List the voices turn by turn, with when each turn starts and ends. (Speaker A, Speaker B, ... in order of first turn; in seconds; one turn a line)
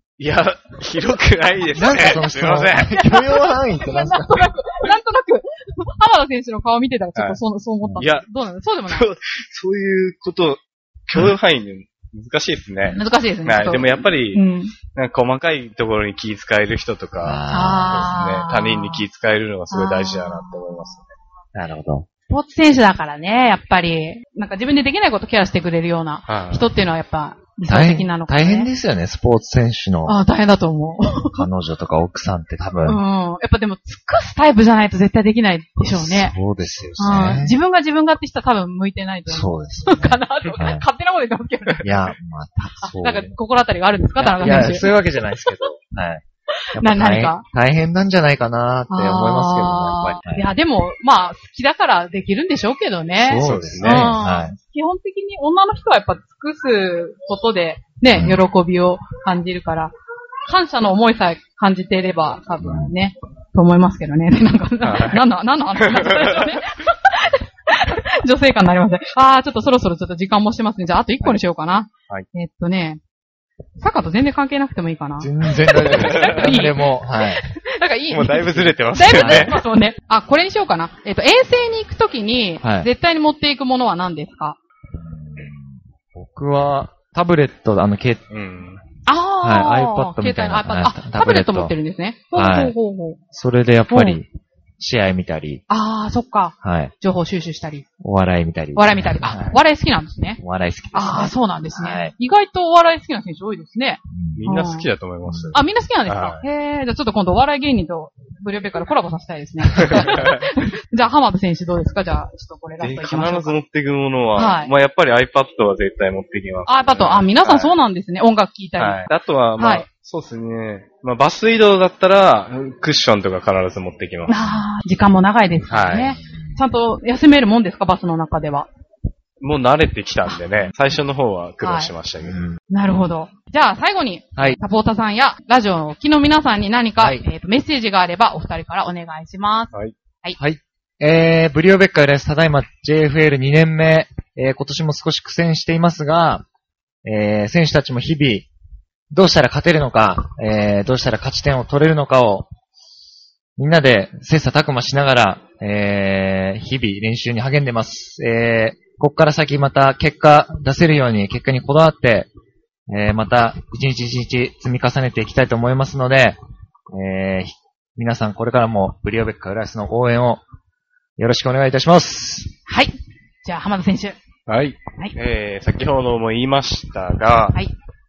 Speaker A: 0.2-2.9
Speaker B: 1.7-4.5
Speaker C: 2.9-9.1
Speaker A: 8.0-8.3
Speaker A: 8.9-14.4
Speaker C: 12.9-14.7
Speaker A: 14.9-21.1
Speaker B: 17.2-18.1
Speaker C: 17.5-19.0
Speaker C: 19.7-21.0
Speaker B: 21.6-22.1
Speaker C: 22.3-28.7
Speaker A: 26.3-26.7
Speaker B: 27.7-30.2
Speaker C: 30.1-31.4
Speaker B: 31.3-33.0
Speaker C: 32.9-36.4
Speaker B: 35.8-37.6
Speaker C: 37.0-41.9
Speaker B: 39.3-40.9
Speaker B: 41.8-43.3
Speaker C: 42.8-44.9
Speaker B: 44.2-46.2
Speaker C: 46.8-47.4
Speaker B: 46.8-50.5
Speaker C: 48.9-60.0
Speaker B: 53.2-54.6
Speaker A: 53.4-54.2
Speaker B: 58.1-58.4
Speaker C: 60.5-73.0
Speaker B: 62.6-62.9
Speaker A: 64.8-65.2
Speaker A: 65.8-66.5
Speaker C: 73.8-84.6
Speaker B: 75.2-77.4
Speaker A: 75.9-76.4
Speaker A: 78.1-79.6
Speaker B: 79.1-79.5
Speaker B: 82.6-82.9
Speaker B: 84.9-88.2
Speaker A: 88.3-88.8
Speaker C: 89.1-93.2
Speaker B: 89.4-91.8
Speaker B: 92.3-92.8
Speaker B: 93.3-94.3
Speaker C: 93.9-94.2
Speaker B: 94.8-95.6
Speaker C: 95.7-97.9
Speaker B: 96.6-96.9
Speaker B: 98.0-99.6
Speaker C: 98.8-100.4
Speaker B: 100.4-102.1
Speaker C: 100.9-104.9
Speaker B: 104.1-104.5
Speaker A: 104.4-106.4
Speaker B: 105.2-105.6
Speaker C: 105.5-113.6
Speaker A: 109.8-110.4
Speaker A: 112.8-117.7
Speaker C: 114.3-114.7
Speaker C: 116.6-119.1
Speaker A: 118.8-124.5
Speaker C: 119.6-119.9
Speaker C: 124.3-128.7
Speaker A: 125.7-126.2
Speaker B: 126.2-126.6
Speaker A: 129.4-132.4
Speaker C: 131.6-131.9
Speaker B: 132.2-132.6
Speaker C: 132.7-140.4
Speaker B: 137.0-137.2
Speaker B: 140.4-146.4
Speaker B: 147.1-148.5
Speaker B: 149.1-152.5
Speaker B: 153.6-162.3
Speaker B: 162.9-166.4
Speaker B: 166.9-170.4
Speaker B: 171.2-172.5
Speaker C: 172.7-174.2
Speaker A: 174.5-177.6